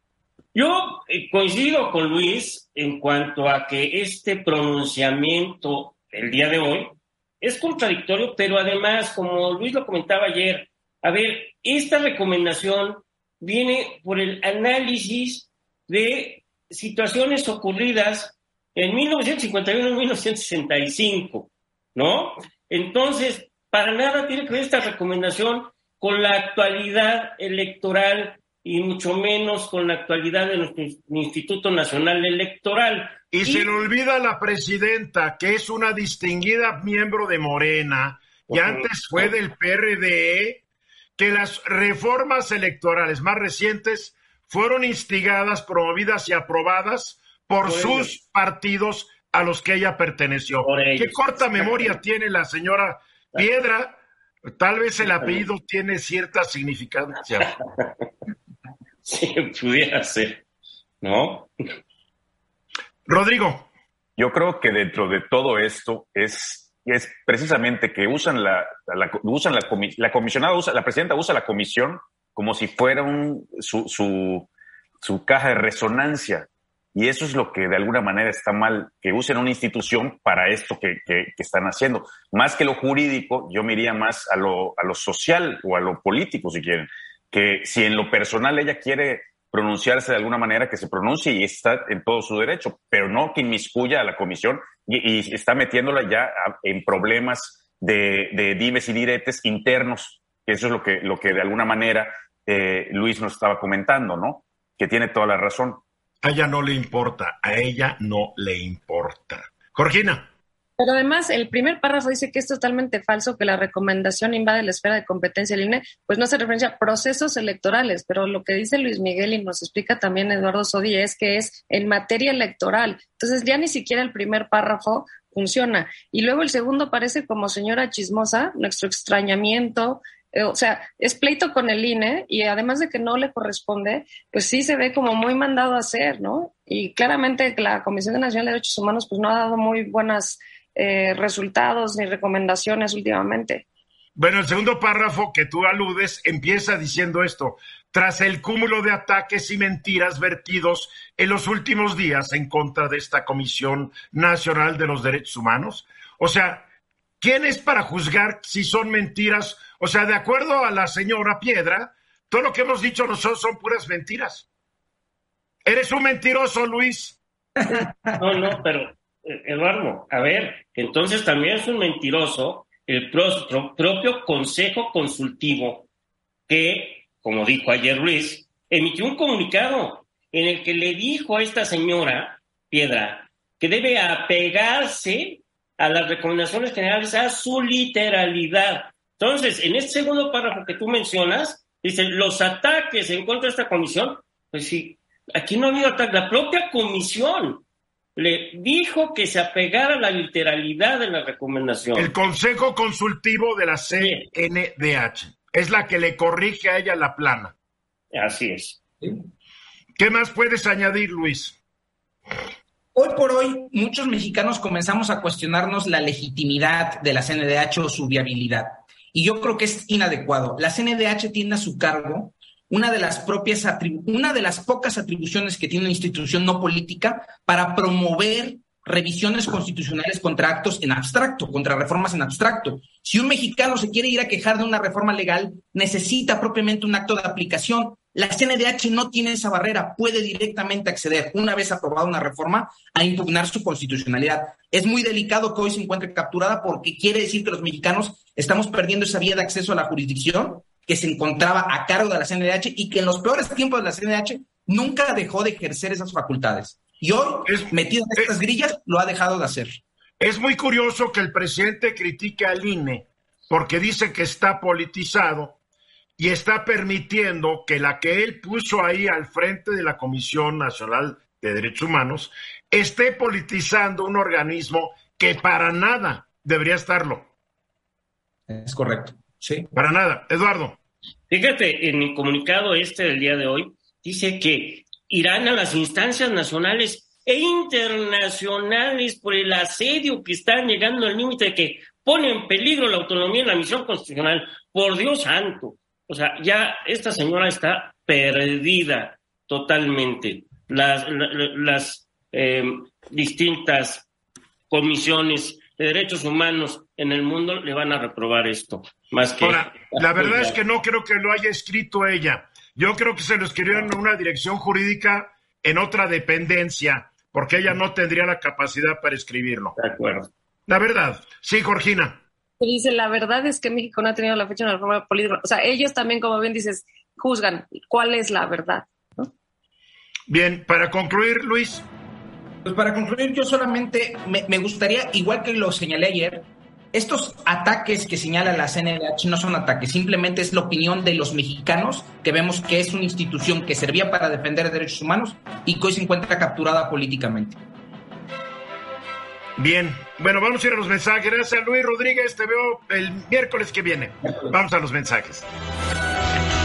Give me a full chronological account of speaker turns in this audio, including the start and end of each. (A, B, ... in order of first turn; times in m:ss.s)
0:00.5-0:33.7 A
0:33.3-0:40.6 B
0:38.5-0:39.3 A
0:41.2-0:54.0 B
0:47.6-0:48.1 A
0:50.6-0:52.0 A
0:54.6-0:57.5 B
0:55.0-0:55.5 A
0:59.0-1:00.4 A
1:01.0-1:01.5 A
1:03.1-1:03.7 B
1:04.2-1:14.5 C
1:15.0-1:45.8 C
1:46.2-1:50.3 B
1:50.8-2:23.6 D
2:24.2-2:36.6 B
2:37.2-2:44.5 B
2:45.6-2:47.2 B
2:47.6-2:48.2 E
2:48.2-2:55.9 A
2:56.5-3:17.6 A
3:18.2-3:22.1 A
3:22.0-3:27.5 B
3:24.0-3:24.3 A
3:28.1-3:28.8 A
3:30.0-3:31.6 B
3:33.0-4:19.8 E
4:17.5-4:18.3 B
4:20.2-4:25.6 B
4:26.2-4:37.3 B
4:38.5-4:39.7 E
4:39.7-4:40.8 B
4:41.3-5:04.1 A
5:04.7-5:10.6 A
5:09.4-5:19.8 B
5:19.8-5:20.3 A
5:20.7-5:22.2 B
5:22.6-5:29.3 D
5:30.3-5:31.8 B
5:32.6-5:47.6 E
5:49.6-5:55.5 B